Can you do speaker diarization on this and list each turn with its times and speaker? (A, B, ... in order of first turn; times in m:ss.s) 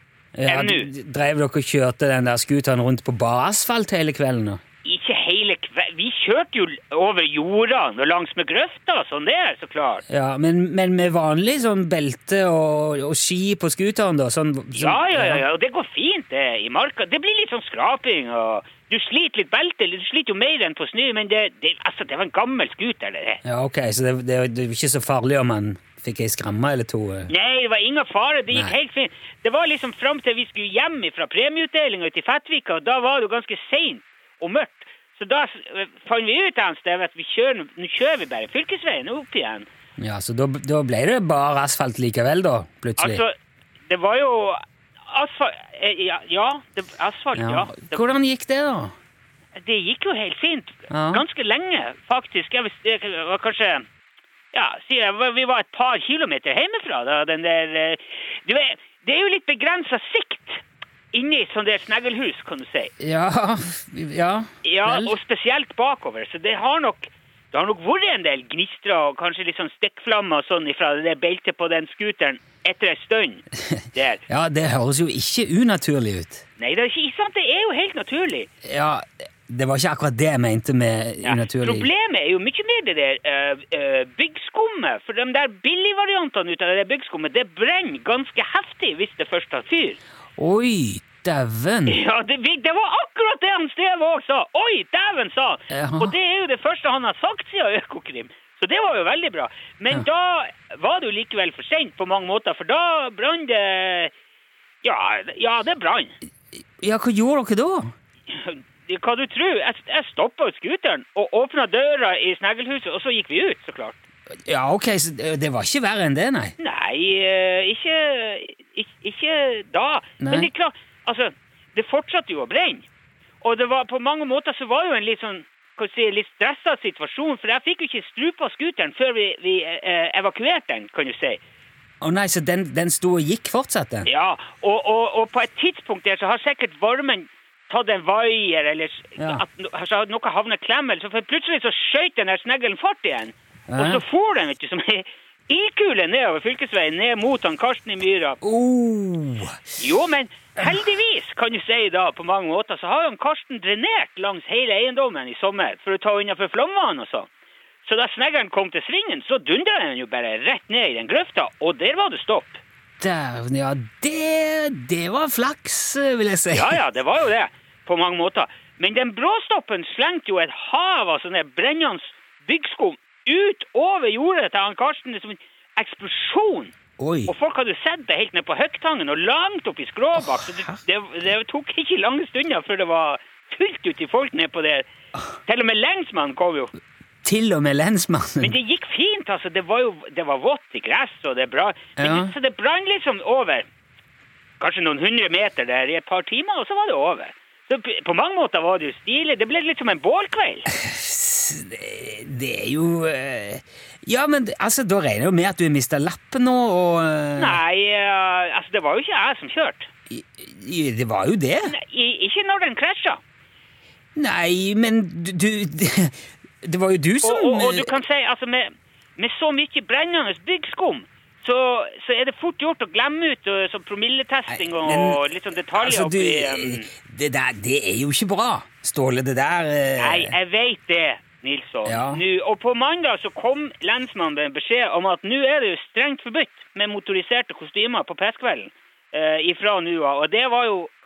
0:00.4-0:04.6 A
0:00.4-0:00.9 B
0:04.8-0:10.0 B
0:10.1-0:15.4 A
0:14.7-0:23.4 B
0:23.4-0:27.3 A
0:27.3-0:39.7 B
0:40.0-0:43.2 A
0:43.0-0:43.3 B
0:43.9-0:48.1 B
0:47.4-0:48.9 A
0:49.6-0:53.8 B
0:50.9-0:51.2 A
0:54.5-1:02.9 B
1:03.0-1:05.2 A
1:04.6-1:13.4 B
1:13.7-1:16.4 A
1:13.9-1:14.2 B
1:16.6-1:18.5 B
1:18.6-1:21.9 A
1:21.2-1:30.0 B
1:30.4-1:32.0 A
1:31.9-1:44.1 B
1:35.7-1:36.2 A
1:44.8-1:46.2 B
1:46.8-1:47.9 A
1:48.3-1:54.0 B
1:54.5-1:56.6 A
1:56.6-2:02.9 B
2:00.2-2:00.5 A
2:03.4-2:11.4 B
2:12.0-2:14.1 A
2:14.0-2:28.4 B
2:19.2-2:19.4 A
2:23.7-2:24.0 A
2:28.4-2:29.6 A
2:29.8-2:37.3 B
2:37.8-2:42.6 B
2:43.0-2:46.8 A
2:46.5-2:56.7 B
2:57.0-2:57.3 A
2:57.3-3:04.9 B
3:00.2-3:00.8 A
3:05.4-3:06.7 B
3:07.2-3:08.6 A
3:08.4-3:13.7 B
3:12.0-3:12.3 A
3:14.6-3:20.7 B
3:20.7-3:27.6 A
3:27.4-3:29.9 B
3:30.1-3:31.7 A
3:31.6-3:33.2 B
3:34.2-3:37.9 A
3:37.2-3:46.9 B
3:44.5-3:45.2 A
3:45.7-3:50.3 A
3:50.0-4:00.9 B
3:51.9-3:52.2 A